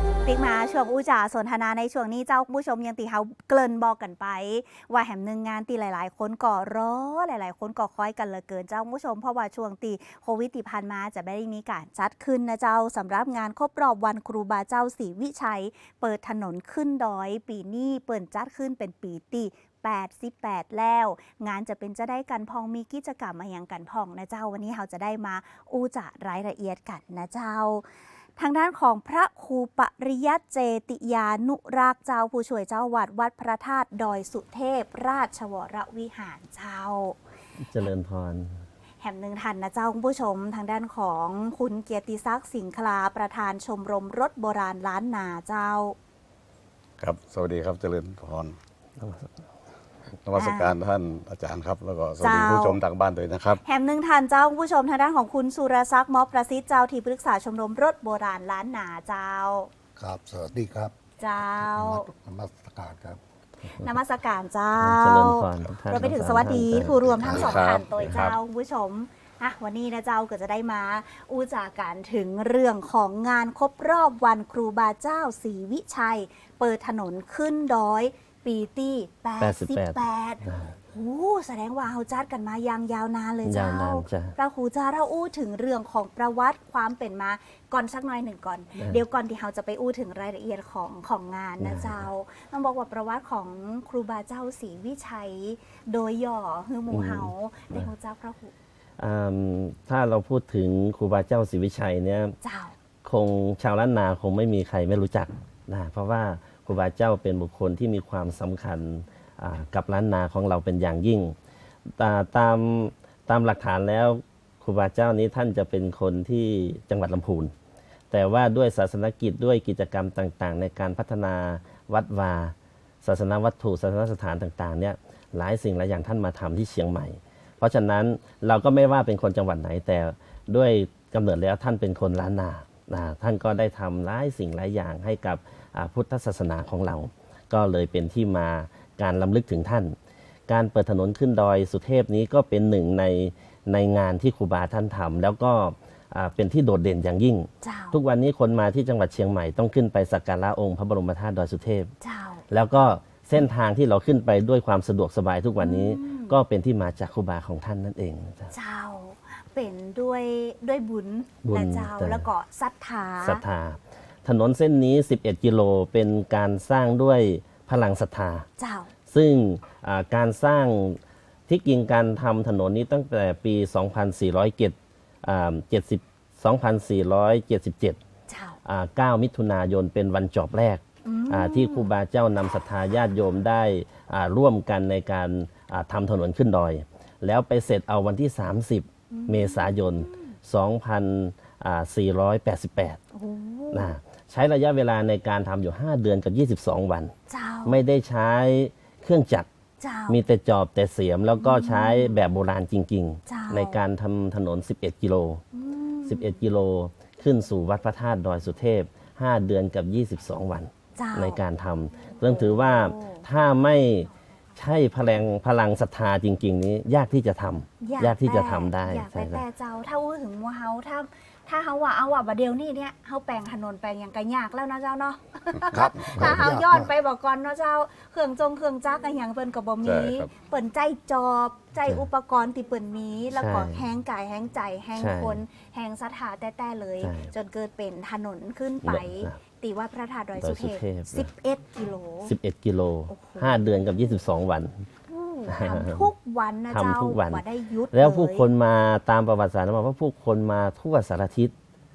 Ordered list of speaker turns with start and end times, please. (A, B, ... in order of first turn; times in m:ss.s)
0:00.2-0:27.8 A
0:28.4-0:37.2 A
0:37.6-0:38.6 B
0:39.0-0:46.0 A
0:47.0-0:48.6 C
0:49.0-0:49.3 B
0:50.2-0:53.6 C
0:50.4-0:50.7 A
0:52.2-0:52.8 A
0:53.6-0:59.7 A
1:00.0-1:00.9 D
1:01.2-1:02.1 A
1:01.6-1:03.2 D
1:03.7-1:38.5 A
1:04.8-1:08.3 B
1:07.0-1:07.6 D
1:07.2-1:08.4 C
1:19.4-1:20.7 B
1:23.4-1:24.4 B
1:31.6-1:32.0 B
1:36.9-1:37.8 B
1:39.0-1:42.4 B
1:42.4-1:42.8 A
1:43.0-1:51.4 B
1:51.9-1:57.5 B
1:58.1-2:20.0 B
2:20.5-2:31.9 B
2:27.6-2:28.0 A
2:32.0-2:32.4 A
2:32.5-2:38.5 B
2:35.6-2:36.4 A
2:38.5-2:43.4 A
2:41.4-2:42.2 B
2:43.2-2:48.5 B
2:48.6-2:48.9 A
2:49.1-2:58.0 B
2:58.3-2:58.6 A
2:58.6-3:13.0 B
3:01.0-3:01.9 A
3:09.1-3:10.4 A
3:13.1-3:13.9 A
3:13.7-3:17.1 B
3:17.3-3:17.8 A
3:17.6-3:19.5 B
3:19.8-3:20.2 A
3:20.1-3:25.4 B
3:21.4-3:22.2 A
3:23.3-3:23.8 A
3:25.5-3:26.4 A
3:26.1-3:39.4 B
3:31.0-3:31.4 A
3:32.2-3:33.2 A
3:37.8-4:02.3 A
3:45.7-3:46.9 D
3:49.8-3:50.3 C
3:53.4-3:53.9 B
3:54.9-3:55.4 B
3:57.0-3:57.3 B
3:58.8-3:59.4 B
4:00.4-4:01.3 B
4:02.2-4:04.9 B
4:03.1-4:03.6 A
4:05.1-4:08.5 A
4:05.5-4:06.1 B
4:06.7-4:11.5 B